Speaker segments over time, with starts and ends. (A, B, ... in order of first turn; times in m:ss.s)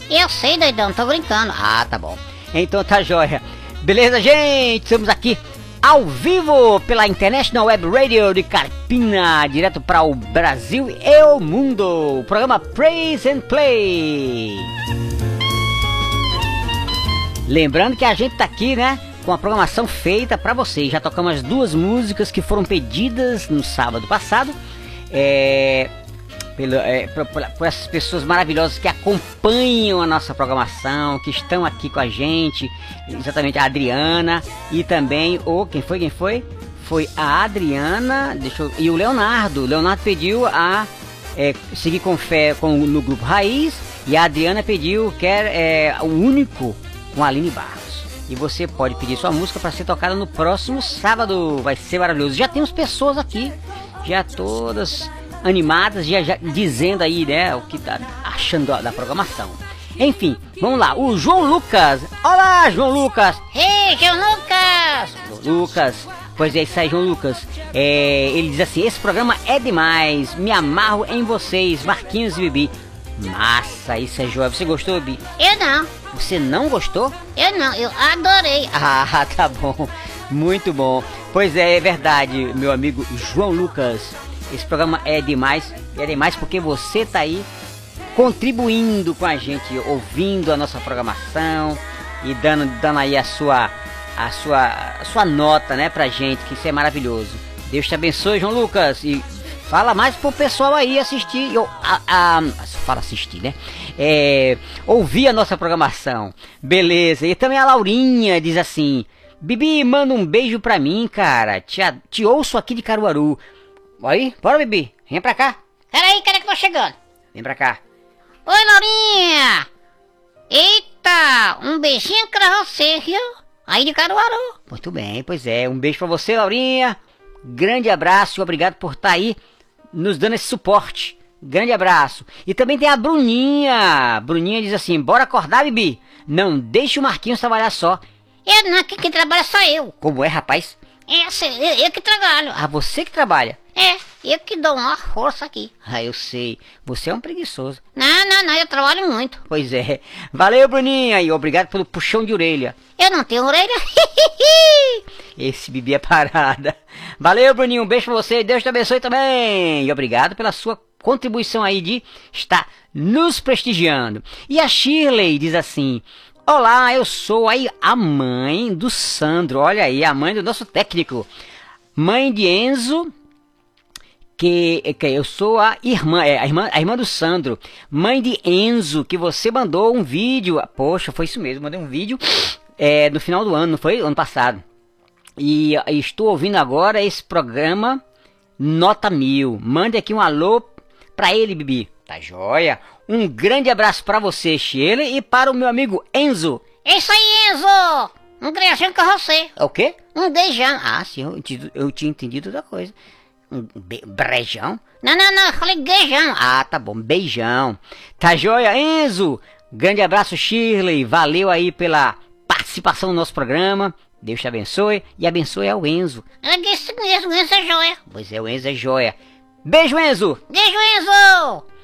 0:00.1-0:01.6 A
0:01.6-0:14.7 B
0:17.5-0:24.6 B
0:25.1-0:25.9 B
0:26.6-1:03.5 B
1:03.5-1:05.3 A
1:05.2-1:15.3 B
1:15.4-1:16.0 A
1:16.0-1:17.2 B
1:17.3-1:18.8 A
1:18.8-1:27.5 B
1:28.1-1:53.4 B
1:54.0-1:55.6 B
1:55.9-1:56.9 A
1:57.3-1:57.8 B
1:58.4-1:59.6 A
2:00.5-2:04.6 A
2:04.7-2:09.4 B
2:09.9-2:18.0 B
2:18.4-2:19.9 A
2:20.0-2:20.8 B
2:21.1-2:22.6 A
2:22.5-2:23.6 B
2:23.7-2:25.7 A
2:25.8-2:27.8 B
2:27.9-2:29.5 A
2:29.4-2:32.8 B
2:32.9-2:35.0 A
2:35.4-2:51.3 B
2:52.0-2:53.1 B
2:54.4-3:04.6 B
3:05.4-3:08.0 B
3:08.6-3:16.6 B
3:16.8-3:21.3 A
3:19.6-3:20.0 B
3:21.2-3:22.9 B
3:23.5-3:24.9 B
3:24.9-3:26.4 A
3:26.4-3:36.2 B
3:36.4-3:38.1 A
3:38.0-3:40.4 B
3:40.5-3:41.6 A